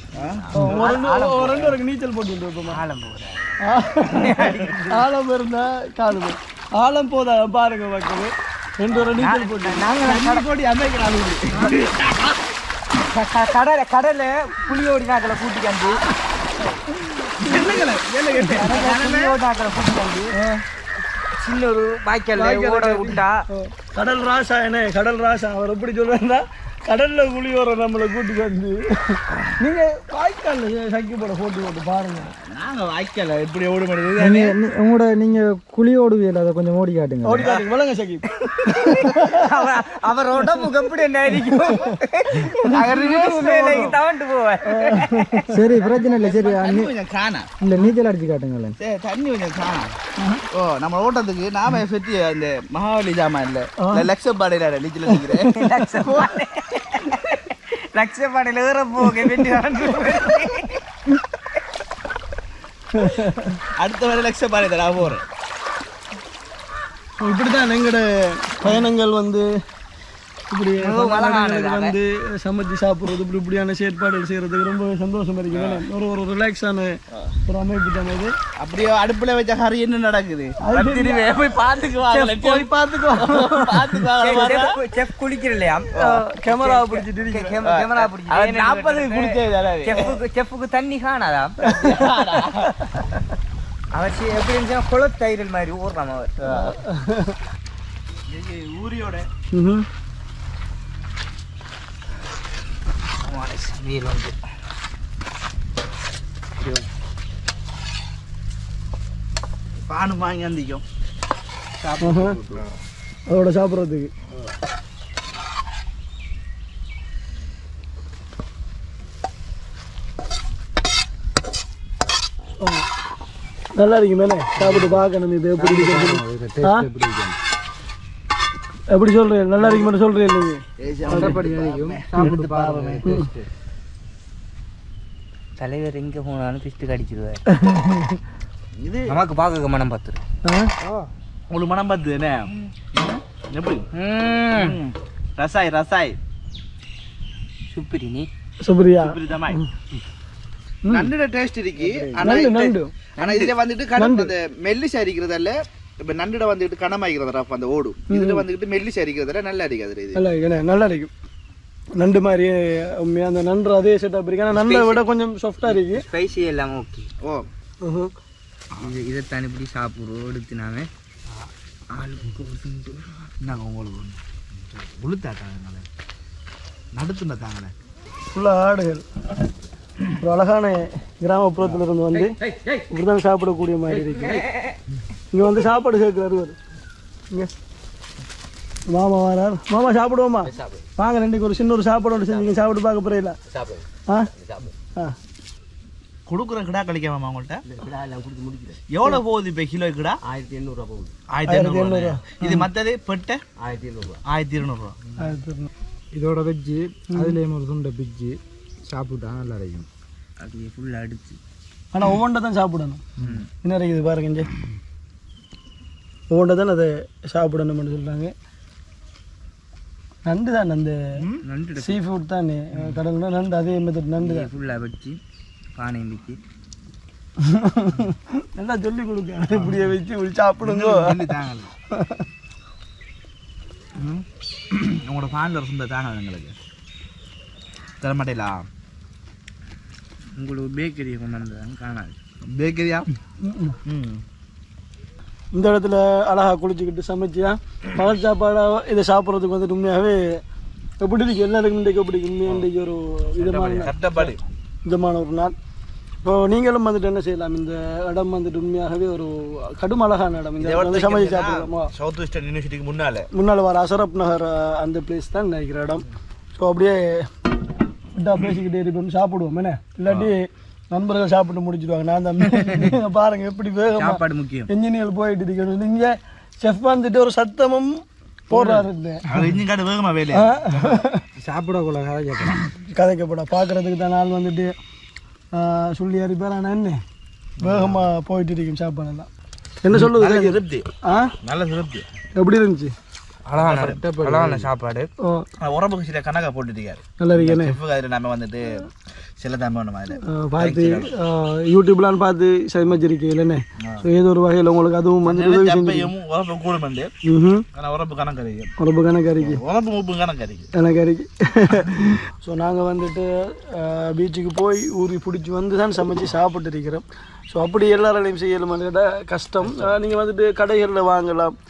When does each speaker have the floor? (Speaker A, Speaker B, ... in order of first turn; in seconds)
Speaker A: 0.1-0.9, 10.0-12.4, 17.1-19.4, 32.2-34.6, 37.4-37.7, 38.8-39.1, 42.5-44.0, 45.7-47.5, 48.8-50.0, 50.5-55.5, 56.0-56.4, 63.8-65.2, 75.5-75.8, 78.6-84.7, 86.0-86.2, 87.6-90.2, 91.7-92.8, 96.4-96.8, 98.2-99.3, 109.8-110.8, 112.0-112.7, 130.8-133.4, 138.8-139.2, 141.5-143.9, 144.5-146.2, 149.0-149.6, 150.9-160.2, 167.2-167.5, 173.4-175.8, 176.9-177.7, 196.3-197.6, 198.8-200.2, 201.3-203.4, 204.2-205.0, 213.2-213.5, 229.5-229.9, 230.6-231.7, 234.0-236.6, 238.0-238.7, 242.5-243.1, 243.9-244.2, 253.4-254.4, 260.6-263.3, 273.9-274.7, 278.5-280.9, 287.6-288.1, 289.9-290.9, 291.4-292.1, 293.6-294.0, 295.6-298.9, 299.4-301.1, 303.8-304.1, 305.2-307.1, 307.7-308.7, 309.4-310.7, 319.6-319.9
Speaker B: 0.2-1.8, 2.7-3.4, 4.0-5.0, 9.2-10.4, 13.0-16.0, 18.6-20.3, 21.3-23.4, 38.9-46.4, 55.5-60.8, 70.8-72.0, 81.4-81.9, 84.2-92.0, 93.9-96.4, 103.2-104.3, 135.6-137.4, 139.1-140.2, 143.9-144.8, 147.7-148.3, 153.2-153.5, 164.5-165.0, 165.7-167.1, 168.8-170.9, 171.9-173.1, 210.4-211.4, 221.4-222.0, 224.2-225.2, 225.8-226.4, 240.3-242.2, 293.5-295.1
Speaker C: 0.5-2.8, 3.6-4.3, 4.9-9.9, 20.4-20.6, 22.4-32.3, 37.2-39.5, 41.5-41.9, 44.6-45.5, 53.8-54.1, 55.1-55.8, 63.0-63.6, 67.2-69.5, 70.5-77.0, 77.5-78.3, 80.6-81.3, 82.1-84.5, 85.9-87.6, 91.7-92.1, 96.6-97.3, 99.5-99.8, 112.0-112.4, 113.3-114.1, 123.8-126.9, 128.9-131.5, 137.6-138.2, 140.4-140.7, 148.6-149.6, 150.8-151.1, 152.2-152.9, 153.9-154.3, 158.1-158.5, 160.2-161.1, 162.0-166.0, 167.8-168.1, 178.3-179.1, 180.2-182.4, 182.9-184.4, 185.3-186.6, 188.9-193.4, 201.5-202.7, 205.2-205.7, 207.2-207.4, 211.9-213.0, 213.6-214.5, 216.3-218.3, 220.2-221.0, 221.8-224.5, 227.4-231.2, 231.9-232.2, 243.4-243.8, 245.5-250.4, 251.0-254.3, 254.9-255.5, 256.2-261.9, 263.3-267.3, 268.1-279.2, 280.3-281.2, 282.9-284.7, 285.6-287.0, 287.6-289.3, 289.8-291.3, 292.4-292.9, 297.2-297.8, 300.2-306.1, 307.3-307.7, 308.8-309.6, 310.7-321.6
Speaker D: 34.2-37.5, 45.5-46.9, 47.6-48.8, 124.6-125.0, 125.6-127.4, 131.1-133.3, 197.7-198.8, 200.2-201.1, 203.6-204.2, 206.1-209.9, 281.4-282.6, 294.0-294.7